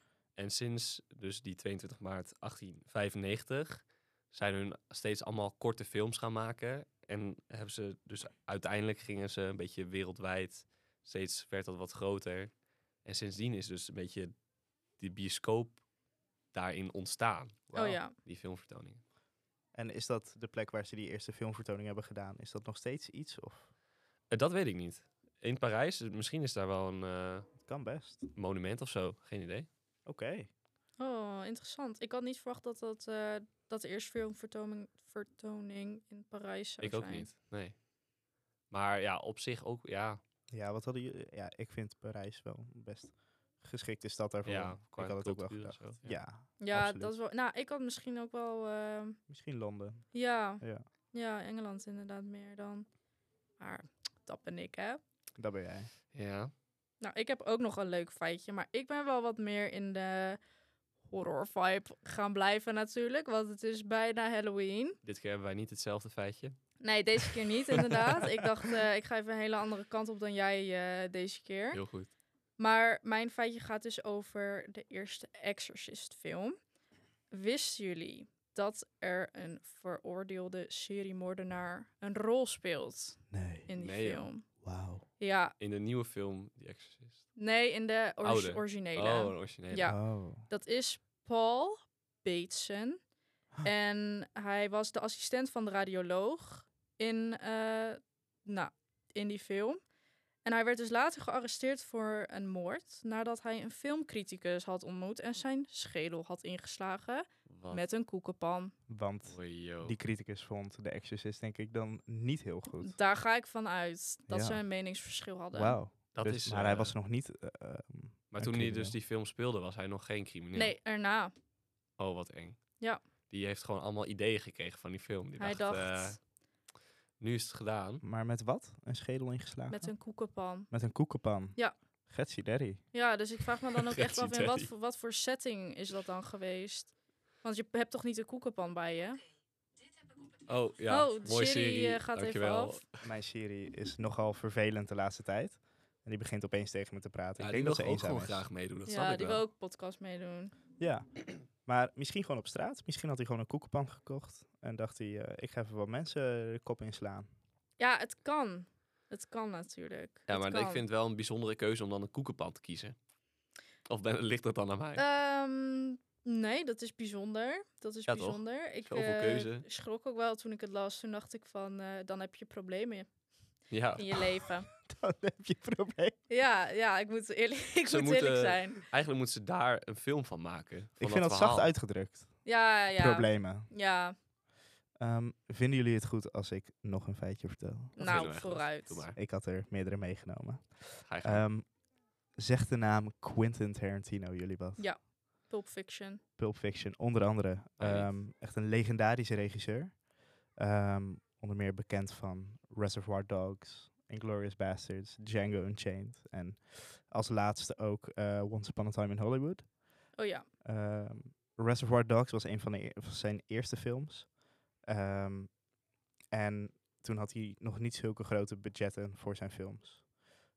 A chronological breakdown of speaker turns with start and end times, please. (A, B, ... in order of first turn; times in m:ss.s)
0:00.4-0:12.5 A
0:13.0-0:14.3 A
0:15.0-0:15.8 A
0:16.5-0:19.0 A
0:17.7-0:18.1 B
0:19.7-0:23.7 C
0:24.3-0:27.5 A
0:27.6-0:28.3 C
0:28.3-0:29.7 A
0:30.0-0:30.5 C
0:31.0-0:37.3 B
0:36.8-0:37.8 A
0:38.7-0:40.2 A
0:40.5-0:47.1 C
0:44.4-0:46.2 A
0:46.6-0:49.2 B
0:49.3-0:50.8 C
0:50.1-0:52.9 B
0:53.6-0:55.0 B
0:55.4-0:55.9 C
0:56.1-0:56.5 A
0:57.0-1:00.4 B
1:01.1-1:05.0 B
1:05.0-1:06.6 A
1:06.8-1:11.8 B
1:07.2-1:08.1 A
1:11.7-1:12.1 A
1:12.6-1:16.6 B
1:17.3-1:24.6 B
1:23.3-1:23.7 C
1:23.8-1:24.3 A
1:24.6-1:25.0 C
1:25.2-1:25.5 B
1:25.6-1:27.3 A
1:27.4-1:33.0 B
1:28.2-1:30.0 A
1:29.8-1:30.5 C
1:33.6-1:39.8 B
1:40.4-1:48.7 B
1:47.4-1:47.8 A
1:48.9-1:53.0 C
1:49.2-1:50.0 A
1:52.8-1:55.8 B
1:54.3-1:54.6 C
1:55.5-1:59.0 C
1:56.1-1:56.9 A
1:58.3-2:00.7 A
2:00.5-2:01.3 B
2:02.0-2:02.6 A
2:03.3-2:06.2 A
2:05.4-2:06.2 B
2:07.2-2:08.0 A
2:08.0-2:09.9 C
2:09.7-2:10.7 B
2:10.7-2:12.8 C
2:12.9-2:19.2 B
2:13.8-2:14.7 A
2:20.4-2:23.0 A
2:20.9-2:22.8 B
2:23.0-2:28.4 C
2:27.4-2:29.4 A
2:28.9-2:30.5 B
2:30.8-2:37.3 C
2:37.8-2:40.8 B
2:40.3-2:43.0 A
2:43.8-2:45.0 A
2:45.0-2:53.1 B
2:48.1-2:49.6 A
2:53.7-2:54.0 A
2:54.0-2:54.7 B
2:54.7-2:56.2 C
2:56.3-2:58.8 B
2:57.9-3:01.7 A
3:01.0-3:03.7 C
3:02.4-3:04.2 B
3:05.0-3:08.3 C
3:08.0-3:09.0 B
3:08.0-3:09.2 A
3:09.1-3:11.7 C
3:11.0-3:11.4 A
3:12.4-3:14.9 C
3:14.8-3:16.2 B
3:16.4-3:29.7 C
3:17.8-3:18.1 A
3:30.2-3:30.4 B
3:30.6-3:35.6 C
3:36.3-3:40.1 C